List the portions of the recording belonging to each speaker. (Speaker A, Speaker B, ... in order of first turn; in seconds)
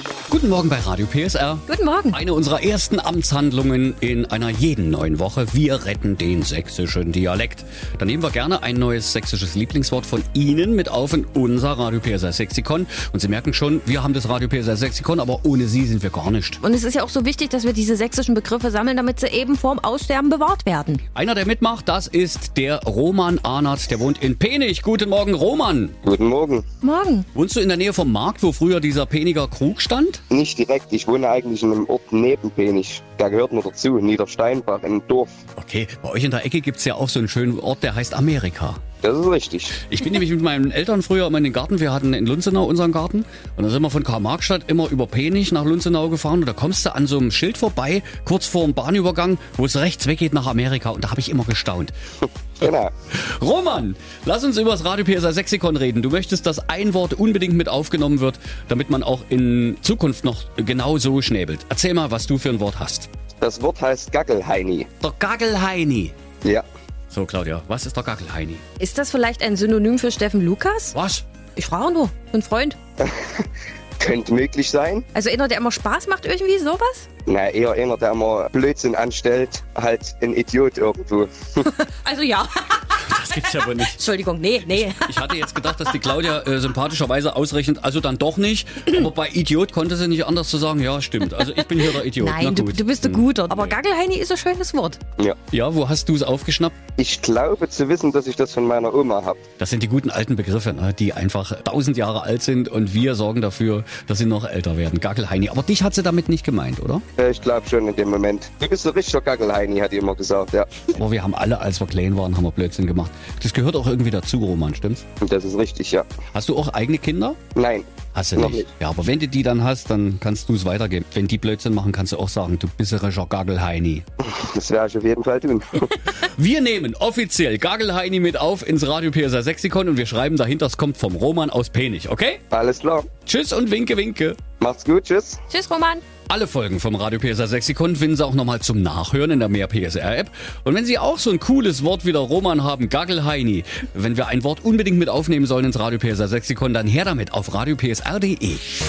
Speaker A: 0.3-16.6, 21.1-25.9, 27.3-30.2, 35.6-38.8, 39.8-51.9, 53.1-63.1, 65.0-66.1, 67.1-68.6, 70.9-71.2, 83.0-84.0, 84.6-93.8, 95.5-96.8, 99.6-107.0, 110.9-115.0, 116.3-117.4, 118.1-124.0, 126.0-132.4, 133.2-134.4, 136.3-148.7
Speaker B: 1.7-2.2, 16.6-21.0, 26.8-27.2, 68.8-70.9, 71.6-72.8, 75.1-77.1, 81.7-86.0, 92.0-95.0, 135.5-136.0
Speaker C: 26.0-26.6, 30.3-35.3, 39.0-39.8, 52.6-52.9, 63.4-64.9, 73.0-73.4, 74.0-75.0, 77.3-81.6, 97.0-99.4, 107.2-110.8, 115.2-116.1, 117.5-118.7, 124.2-125.9, 132.5-133.1, 134.6-135.4